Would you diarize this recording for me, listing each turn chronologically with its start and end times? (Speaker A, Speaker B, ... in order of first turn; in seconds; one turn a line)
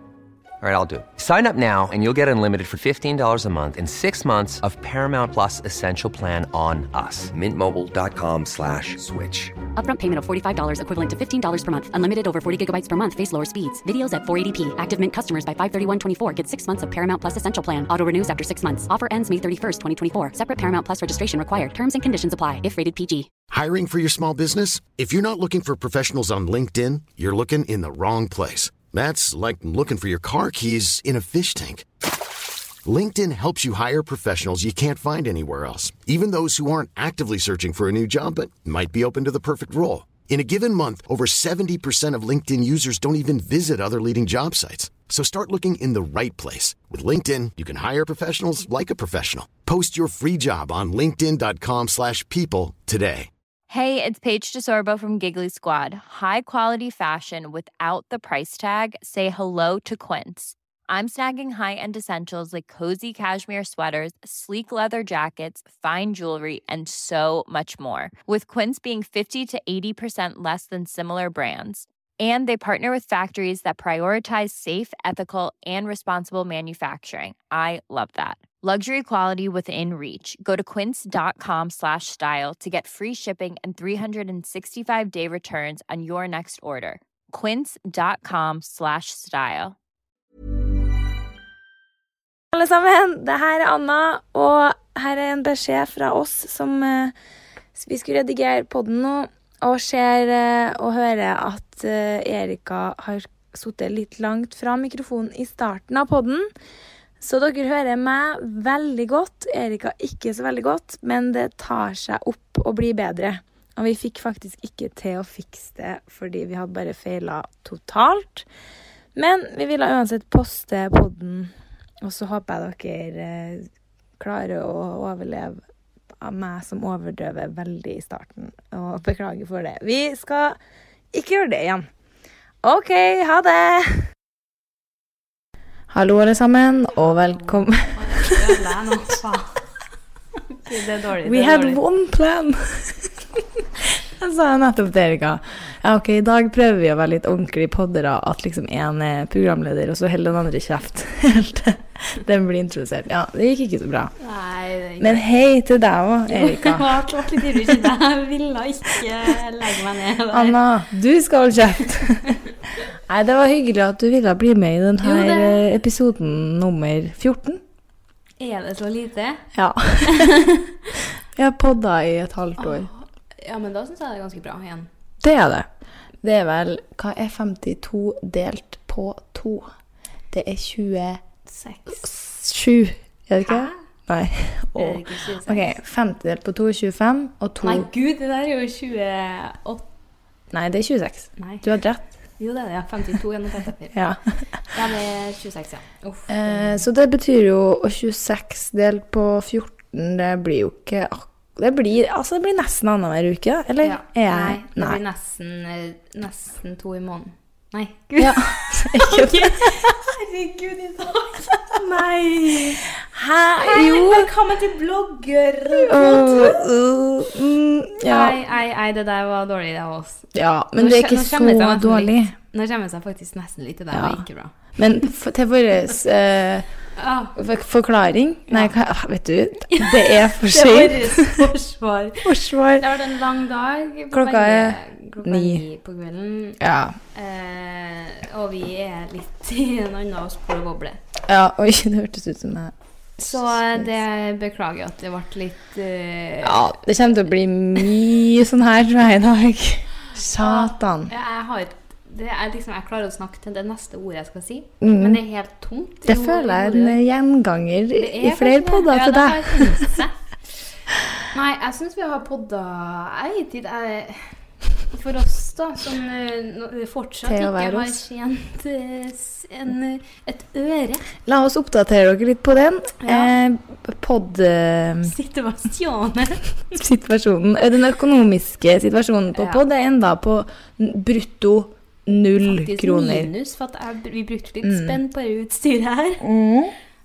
Speaker A: 0.6-9.6
Speaker B: 9.8-23.3
Speaker C: 23.5-31.9
Speaker C: 32.9-53.3
Speaker D: 53.7-89.8
Speaker E: 92.5-97.1
Speaker E: 97.8-106.5
Speaker E: 107.2-118.5
Speaker E: 119.2-125.6
Speaker E: 126.2-130.6
Speaker E: 131.1-131.9
Speaker E: 132.6-134.1
Speaker E: 135.9-138.6
Speaker F: 137.4-139.6
Speaker F: 140.6-141.8
Speaker E: 141.2-154.1
Speaker F: 154.2-155.2
Speaker E: 155.0-157.8
Speaker F: 156.3-160.6
Speaker E: 160.3-162.4
Speaker E: 163.1-167.6
Speaker F: 165.0-165.6
Speaker F: 168.4-169.5
Speaker E: 169.6-170.4
Speaker F: 170.0-170.7
Speaker E: 171.3-172.9
Speaker F: 172.6-174.9
Speaker E: 175.2-175.7
Speaker E: 176.2-179.7
Speaker E: 180.3-181.2
Speaker F: 181.5-182.0
Speaker E: 181.9-187.9
Speaker F: 183.4-183.8
Speaker F: 184.8-185.8
Speaker F: 187.6-189.9
Speaker E: 190.5-192.1
Speaker F: 191.4-191.6
Speaker F: 192.4-194.0
Speaker E: 193.9-194.2
Speaker F: 194.7-196.8
Speaker E: 196.3-205.0
Speaker F: 203.8-212.8
Speaker E: 208.2-209.9
Speaker E: 213.0-214.3
Speaker F: 213.6-216.7
Speaker E: 215.7-218.4
Speaker F: 218.1-225.1
Speaker E: 220.3-222.3
Speaker E: 223.9-224.2
Speaker E: 224.8-226.7
Speaker F: 227.0-227.4
Speaker E: 227.4-231.5
Speaker F: 229.7-236.6
Speaker E: 232.2-232.9
Speaker E: 234.1-235.6
Speaker E: 236.6-237.0
Speaker F: 237.1-241.0
Speaker E: 241.3-243.9
Speaker F: 243.2-246.8
Speaker E: 246.4-251.1
Speaker F: 250.4-257.0
Speaker E: 254.8-255.2
Speaker E: 256.1-259.9
Speaker F: 258.0-260.2
Speaker F: 261.3-264.4
Speaker F: 264.9-271.1
Speaker E: 267.2-268.0
Speaker E: 271.3-275.1
Speaker F: 273.0-273.3
Speaker F: 275.0-276.4
Speaker E: 276.8-283.3
Speaker F: 279.4-279.6
Speaker F: 282.4-286.2
Speaker E: 284.6-285.0
Speaker E: 286.2-286.7